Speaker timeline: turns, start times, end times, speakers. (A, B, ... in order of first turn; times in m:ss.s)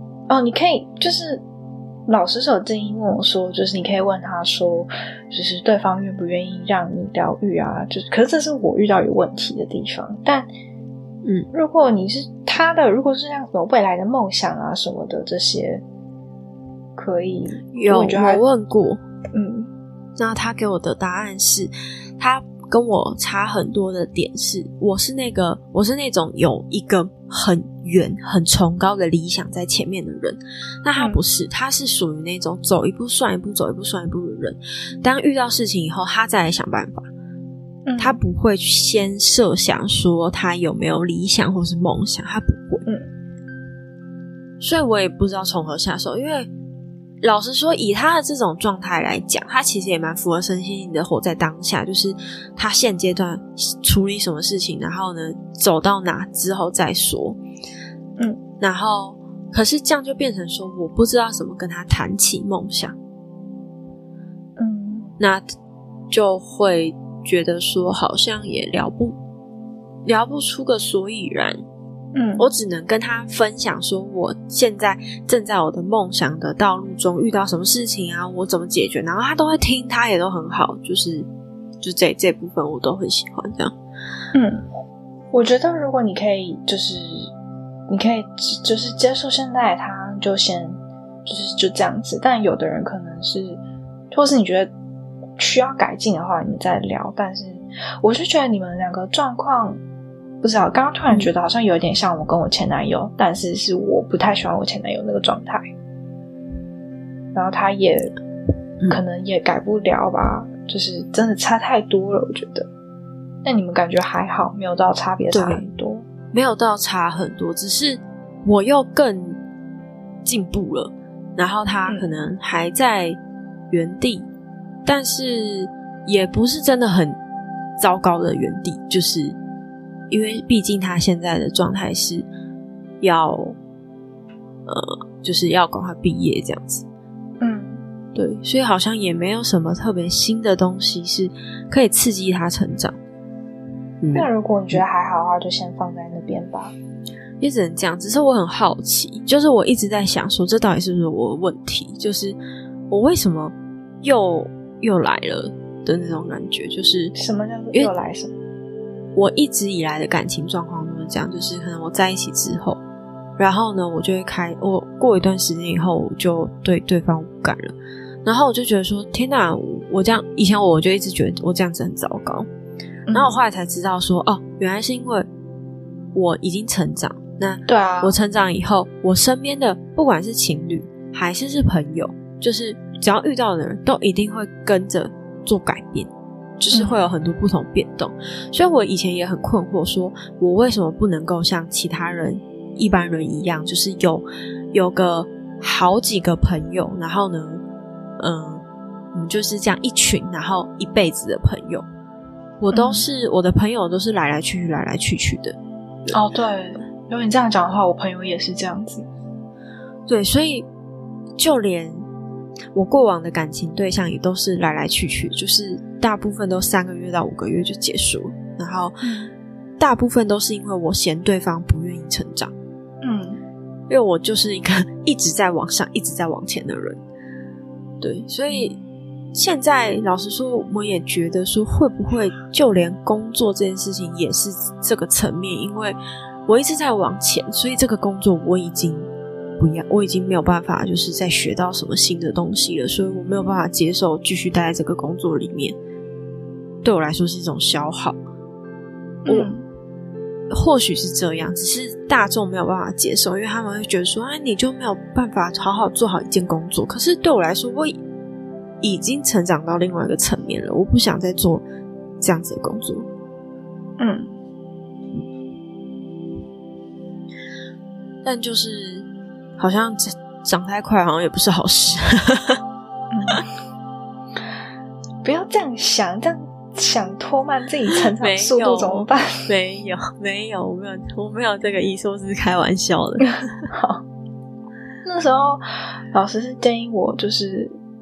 0:00.3-0:01.4 A
0:02.1-0:10.5 A
0:11.5-0:15.8 A
0:17.0-0:18.4 A
0:17.7-0:19.0 B
0:19.3-0:19.7 A
0:20.2-0:37.1 B
0:37.8-0:38.2 A
0:38.0-0:42.8 B
0:44.6-0:46.5 B
0:47.2-0:57.4 B
0:58.6-1:03.0 B
1:04.6-1:05.1 A
1:05.2-1:05.4 B
1:06.1-1:09.2 B
1:10.0-1:11.6 B
1:12.1-1:12.5 A
1:12.4-1:21.3 B
1:21.8-1:23.7 B
1:24.3-1:24.6 A
1:25.3-1:27.3 A
1:27.9-1:34.7 A
1:35.4-1:39.8 A
1:40.4-1:45.7 A
1:47.3-1:48.1 A
1:48.9-1:52.7 A
1:53.4-1:56.0 A
1:55.3-1:55.6 B
1:56.3-1:59.4 B
2:00.2-2:03.2 B
2:03.7-2:04.3 B
2:04.8-2:07.2 B
2:07.8-2:09.4 B
2:10.1-2:12.3 B
2:13.0-2:13.6 B
2:14.7-2:16.8 B
2:17.4-2:17.8 A
2:18.1-2:23.0 B
2:24.0-2:24.8 B
2:24.1-2:26.7 A
2:27.4-2:32.4 B
2:32.9-2:37.1 B
2:37.1-2:38.3 A
2:39.1-2:42.8 B
2:43.4-2:52.5 B
2:53.1-2:53.4 A
2:53.1-2:55.2 B
2:56.1-3:17.6 B
2:57.7-2:58.2 A
3:06.7-3:07.0 A
3:18.2-3:21.8 B
3:22.6-3:26.1 B
3:22.7-3:23.0 A
3:26.1-3:29.1 A
3:30.1-3:30.6 B
3:31.4-3:32.0 B
3:32.7-3:39.0 B
3:39.0-3:39.3 A
3:39.8-3:42.5 B
3:43.0-3:43.4 A
3:43.9-3:47.0 B
3:48.0-3:48.8 B
3:49.3-3:59.1 B
3:59.6-4:05.8 B
4:06.8-4:08.2 B
4:09.2-4:09.6 A
4:10.5-4:18.0 B
4:18.8-4:21.6 B
4:22.2-4:23.1 B
4:24.0-4:24.3 A
4:28.2-4:29.0 B
4:29.6-4:32.6 B
4:33.1-4:33.4 A
4:35.2-4:39.4 A
4:38.2-4:43.7 B
4:43.8-4:44.0 A
4:45.0-4:47.8 A